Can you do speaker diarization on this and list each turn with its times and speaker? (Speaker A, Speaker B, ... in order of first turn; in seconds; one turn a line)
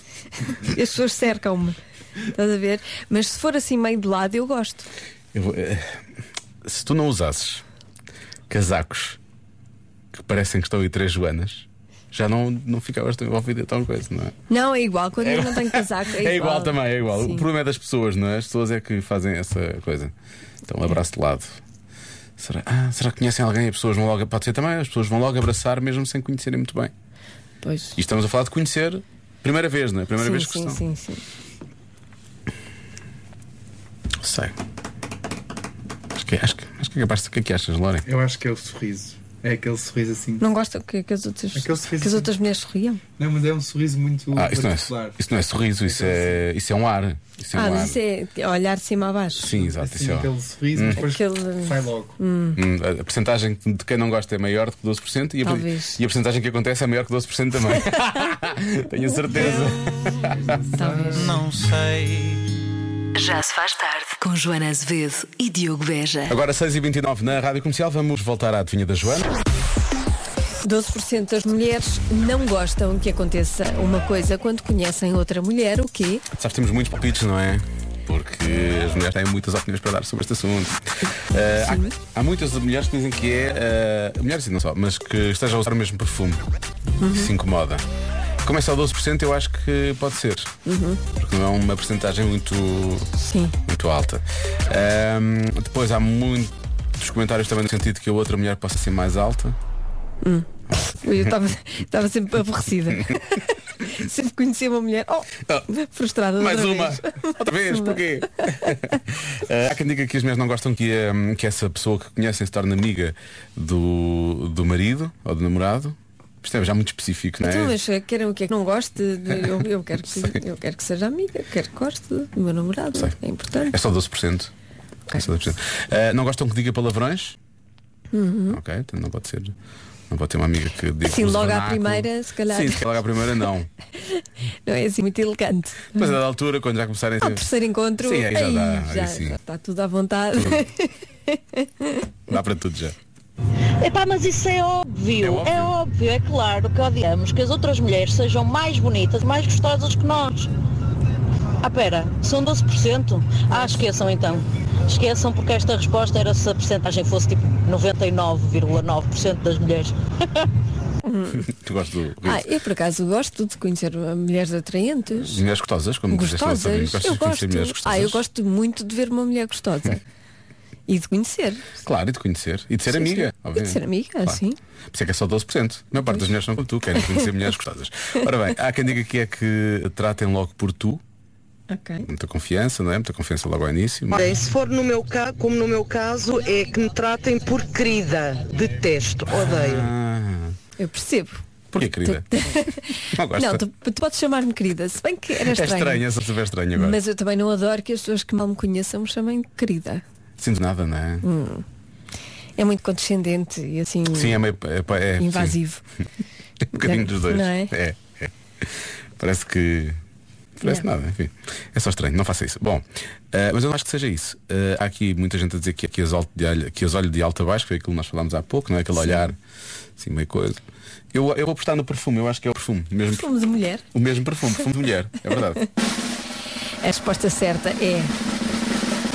Speaker A: 0.4-1.8
Speaker A: 2.3-4.9
Speaker B: 5.3-6.0
Speaker B: 6.6-7.6
Speaker B: 8.5-9.2
Speaker B: 10.1-14.3
Speaker A: 14.5-17.5
Speaker B: 15.2-20.1
Speaker B: 20.6-21.6
Speaker B: 22.4-26.9
Speaker A: 27.6-28.0
Speaker B: 28.0-30.8
Speaker A: 30.2-31.2
Speaker B: 34.2-34.5
Speaker B: 36.1-38.0
Speaker C: 38.0-40.4
Speaker A: 40.4-43.0
Speaker C: 41.5-42.3
Speaker C: 43.2-45.2
Speaker B: 44.3-48.0
Speaker C: 45.8-46.4
Speaker A: 47.5-49.5
Speaker B: 49.3-51.1
Speaker C: 49.5-52.1
Speaker A: 50.9-52.6
Speaker B: 52.5-60.4
Speaker A: 55.4-56.0
Speaker C: 60.5-61.4
Speaker A: 60.7-61.5
Speaker D: 63.1-66.4
Speaker B: 66.3-69.3
Speaker A: 70.6-76.2
Speaker B: 76.3-86.4
Speaker A: 81.6-82.0
Speaker A: 87.0-87.3
Speaker B: 87.1-87.8
Speaker B: 88.4-90.5
Speaker A: 90.6-91.0
Speaker B: 91.1-93.1
Speaker A: 93.2-93.6
Speaker B: 93.7-99.5
Speaker A: 100.2-108.8
Speaker B: 106.4-117.8
Speaker A: 117.4-123.8
Speaker B: 123.7-124.5
Speaker B: 125.1-127.4
Speaker A: 128.1-128.6
Speaker B: 128.5-129.5
Speaker B: 130.1-133.7
Speaker A: 131.0-132.8
Speaker A: 134.6-136.2
Speaker B: 135.9-137.4
Speaker A: 137.2-142.1
Speaker B: 138.0-139.3
Speaker B: 142.3-142.9
Speaker E: 143.8-150.5
Speaker B: 145.2-145.7
Speaker E: 151.6-159.9
Speaker A: 161.0-161.4
Speaker B: 161.4-162.4
Speaker A: 162.2-165.4
Speaker B: 165.2-168.2
Speaker A: 166.1-170.0
Speaker A: 170.9-171.7
Speaker B: 171.8-174.4
Speaker A: 172.9-174.6
Speaker B: 174.9-181.0
Speaker A: 176.0-176.3
Speaker A: 176.9-177.2
Speaker A: 181.7-182.1
Speaker B: 182.1-184.3
Speaker F: 185.2-185.5
Speaker F: 186.6-188.0
Speaker F: 188.6-189.8
Speaker B: 189.3-190.6
Speaker A: 190.8-191.4
Speaker B: 191.7-192.3
Speaker A: 192.0-196.1
Speaker B: 193.1-193.6
Speaker B: 195.4-197.0
Speaker A: 196.7-200.0
Speaker B: 200.4-201.2
Speaker A: 201.2-201.6
Speaker A: 202.6-204.4
Speaker B: 204.1-205.6
Speaker A: 205.2-205.8
Speaker B: 206.7-208.3
Speaker A: 206.7-207.7
Speaker B: 209.2-210.0
Speaker B: 210.6-219.4
Speaker A: 219.0-219.3
Speaker B: 220.0-220.6
Speaker B: 221.1-223.3
Speaker A: 223.1-223.8
Speaker B: 223.9-225.6
Speaker A: 226.8-228.1